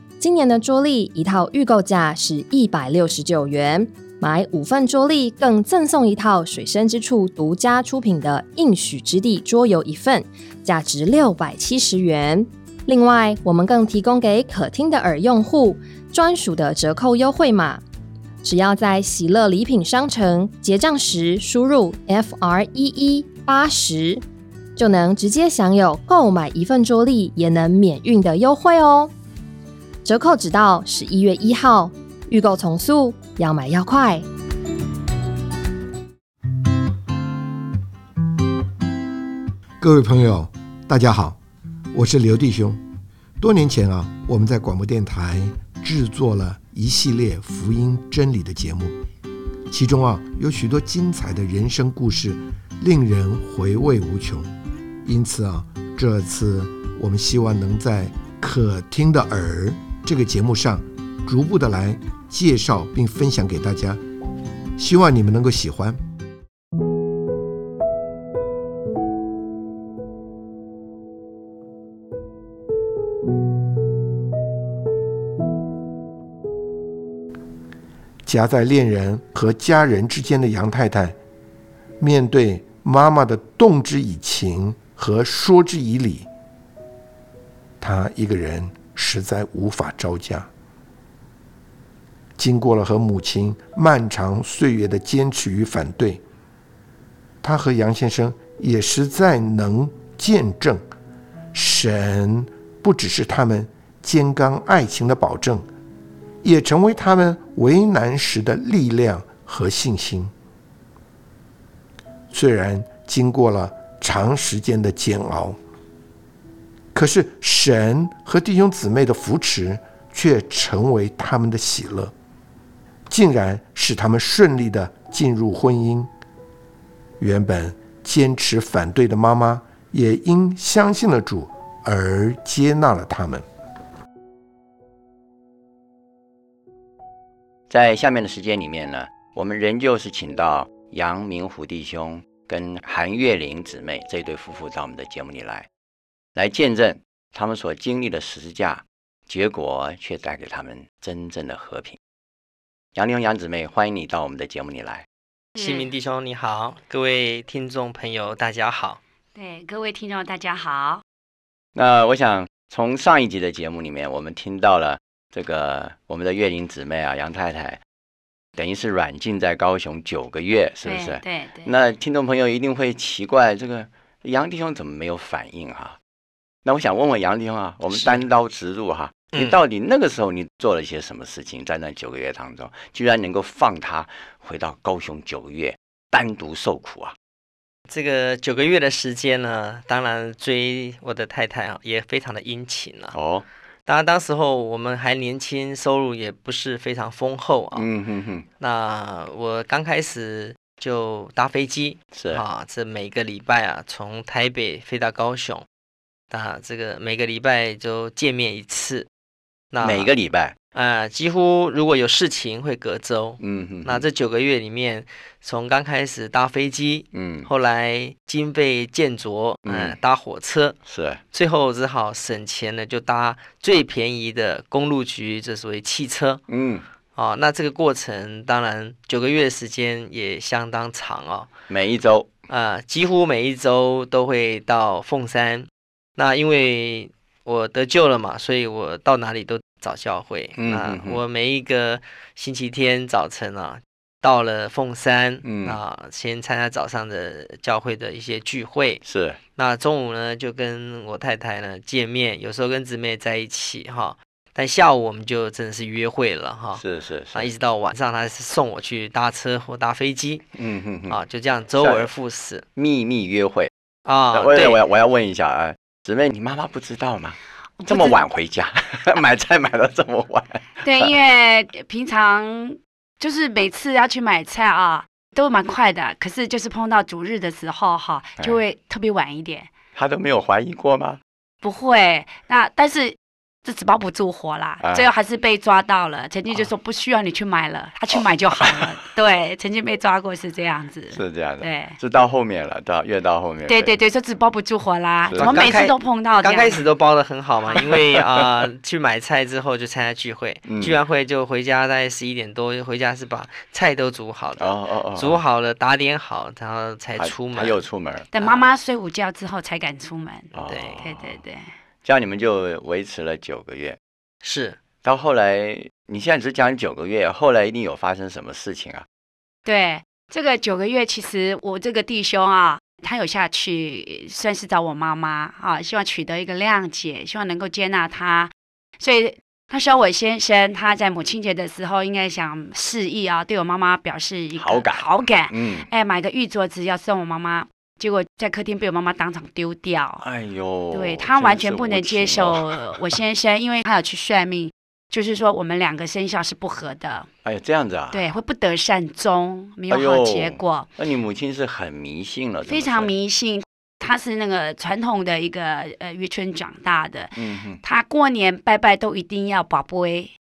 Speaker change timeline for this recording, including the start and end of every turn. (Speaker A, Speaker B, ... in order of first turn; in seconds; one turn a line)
Speaker A: 0.2-17.8
Speaker A: 18.4-24.2
Speaker A: 24.8-29.1
Speaker A: 30.1-34.2
Speaker B: 39.8-41.4
Speaker B: 41.9-42.8
Speaker B: 43.4-49.0
Speaker B: 49.7-54.5
Speaker B: 55.0-64.0
Speaker B: 64.8-66.0
Speaker B: 78.3-81.2
Speaker B: 82.0-86.3
Speaker B: 87.8-90.5
Speaker B: 92.4-96.2
Speaker B: 97.4-100.8
Speaker B: 101.5-105.7
Speaker B: 106.4-110.3
Speaker B: 112.3-115.6
Speaker B: 116.9-122.1
Speaker B: 123.1-126.1
Speaker B: 127.2-133.4
Speaker C: 137.7-145.7
Speaker C: 146.3-152.0
Speaker C: 152.9-155.1
Speaker D: 155.6-155.9
Speaker E: 155.6-159.0
Speaker D: 159.3-161.0
Speaker C: 161.8-167.8
Speaker C: 168.6-176.0
Speaker D: 170.8-171.7
Speaker C: 176.7-187.2
Speaker E: 177.9-178.2
Speaker E: 179.3-179.6
Speaker E: 187.9-193.2
Speaker C: 193.1-193.4
Speaker E: 193.9-197.9
Speaker C: 197.8-198.4
Speaker E: 198.6-205.7
Speaker C: 202.1-202.4
Speaker E: 206.3-209.1
Speaker E: 209.7-210.1
Speaker C: 209.8-210.6
Speaker E: 210.7-220.8
Speaker C: 213.4-214.1
Speaker C: 217.1-217.5
Speaker C: 219.7-220.0
Speaker C: 220.9-221.2
Speaker E: 221.3-226.4
Speaker C: 226.5-226.8
Speaker E: 227.2-231.5
Speaker C: 231.7-232.3
Speaker E: 232.5-249.0
Speaker C: 240.6-241.2
Speaker C: 245.4-245.8
Speaker C: 249.1-249.4
Speaker E: 249.6-260.5
Speaker C: 256.8-257.5
Speaker C: 260.6-261.2
Speaker E: 261.1-262.6
Speaker C: 261.8-262.1
Speaker C: 262.8-263.7
Speaker E: 264.1-264.8
Speaker C: 264.3-267.4
Speaker D: 267.8-268.2
Speaker C: 267.9-271.1
Speaker D: 270.8-279.7
Speaker C: 279.9-281.2
Speaker D: 281.6-292.0
Speaker C: 284.8-285.1
Speaker C: 291.1-294.0
Speaker D: 293.7-296.8
Speaker C: 295.2-295.8
Speaker E: 295.4-307.8
Speaker C: 300.7-301.0
Speaker C: 304.6-305.4
Speaker C: 307.2-308.3
Speaker D: 308.3-311.7
Speaker C: 310.6-311.3
Speaker E: 310.7-311.0
Speaker C: 312.0-314.0
Speaker E: 314.4-314.8
Speaker C: 315.0-319.1
Speaker D: 319.6-340.2
Speaker C: 334.6-335.9
Speaker C: 340.2-343.0
Speaker D: 340.9-347.3
Speaker C: 347.4-348.2
Speaker D: 348.1-350.9
Speaker C: 349.9-353.1
Speaker D: 352.7-360.3
Speaker C: 357.4-357.8